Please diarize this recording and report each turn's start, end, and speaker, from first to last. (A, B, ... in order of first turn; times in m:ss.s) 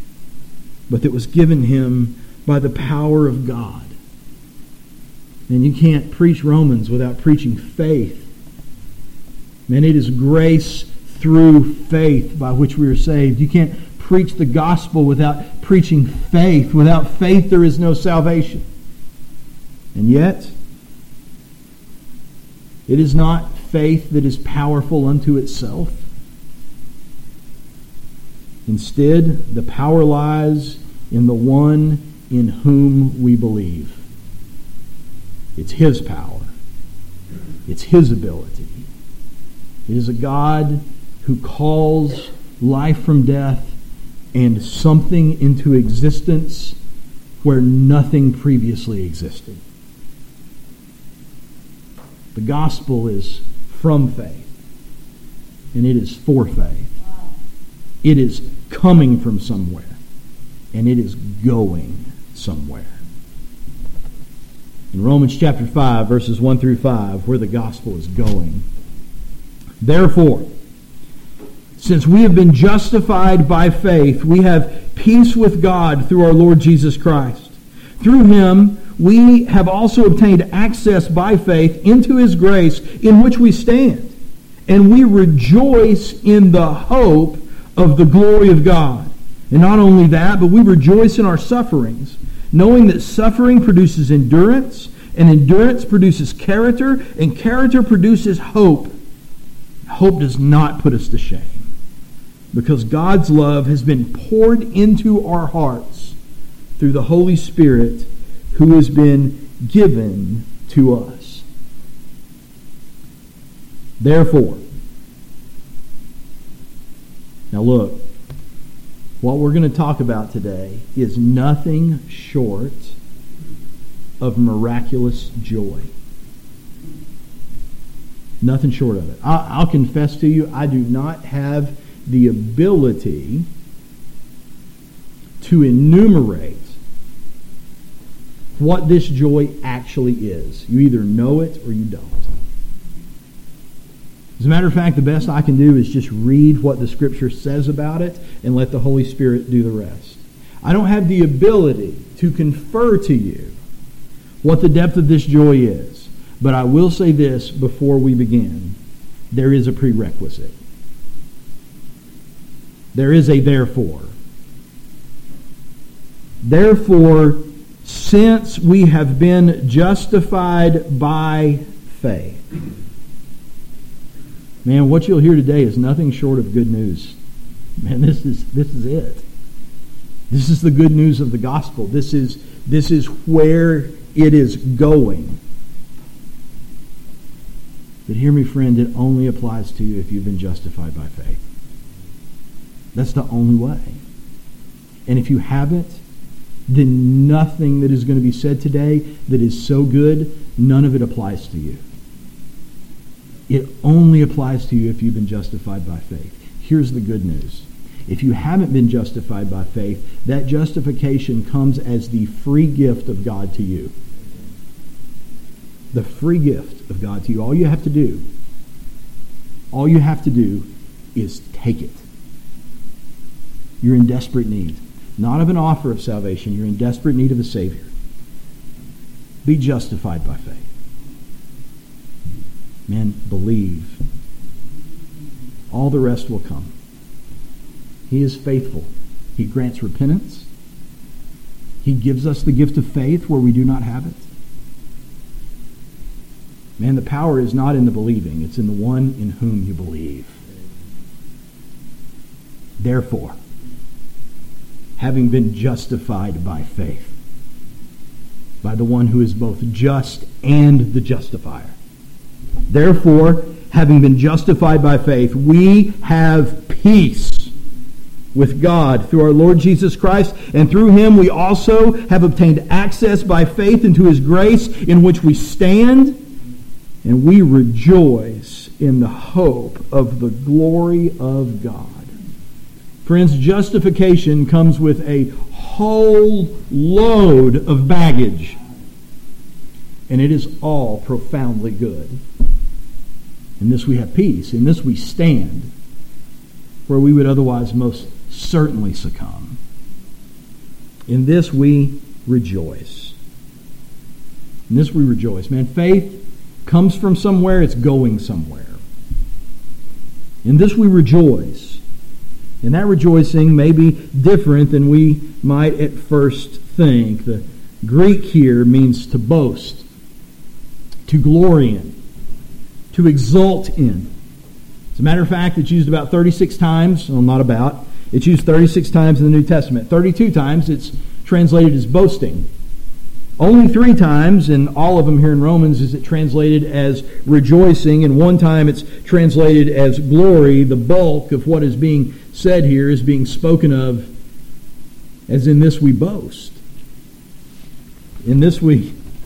0:00.9-0:04.0 A
0:05.5-0:08.3 A
0:09.7-0:18.7 A
0:20.0-0:20.6 A
0:22.9-0:26.1 A
0:28.7-0:34.0 A
0:35.6-0:36.5 A
0:37.7-0:38.9 A
0:39.9-0:43.8 A
0:44.3-0:46.8 A
0:47.4-0:49.6 A
0:52.3-0:54.5 A
0:55.7-0:57.0 A
0:58.0-1:00.0 A
1:00.7-1:03.0 A
1:04.9-1:08.7 A
1:09.8-1:10.5 A
1:11.8-1:24.2 A
1:24.7-1:38.9 A
1:39.9-1:41.7 A
1:42.5-1:46.2 A
1:46.8-1:51.5 A
1:54.0-1:54.6 A
1:57.5-1:58.1 A
1:59.2-2:03.0 A
2:04.2-2:05.9 A
2:08.4-2:13.5 A
2:15.4-2:16.8 A
2:18.6-2:22.3 A
2:24.4-2:33.6 A
2:34.4-2:38.8 A
2:39.3-2:40.6 A
2:42.9-2:44.2 A
2:46.4-2:52.4 A
2:54.6-2:57.2 A
2:57.8-2:59.2 A
3:00.3-3:05.4 A
3:08.1-3:11.5 A
3:13.0-3:14.0 A
3:15.1-3:16.0 A
3:16.7-3:21.8 A
3:23.5-3:33.9 A
3:35.9-3:38.2 A
3:39.7-3:42.1 A
3:43.8-3:47.9 A
3:49.4-3:50.7 A
3:52.9-3:54.0 A
3:55.7-3:56.7 A
3:58.1-4:00.5 A
4:01.8-4:04.3 A
4:06.8-4:10.4 A
4:12.8-4:13.4 A
4:15.0-4:17.2 A
4:18.6-4:21.8 A
4:22.7-4:27.5 A
4:28.3-4:36.2 A
4:37.0-4:42.1 A
4:43.0-4:48.6 A
4:50.1-4:52.2 A
4:53.6-4:55.7 A
4:56.9-4:59.6 A
5:01.1-5:03.2 A
5:04.7-5:08.8 A
5:10.4-5:11.8 A
5:12.6-5:19.9 A
5:21.1-5:22.0 A
5:22.9-5:24.1 A
5:24.9-5:32.5 A
5:33.4-5:44.1 A
5:45.3-5:46.6 A
5:48.2-5:48.9 A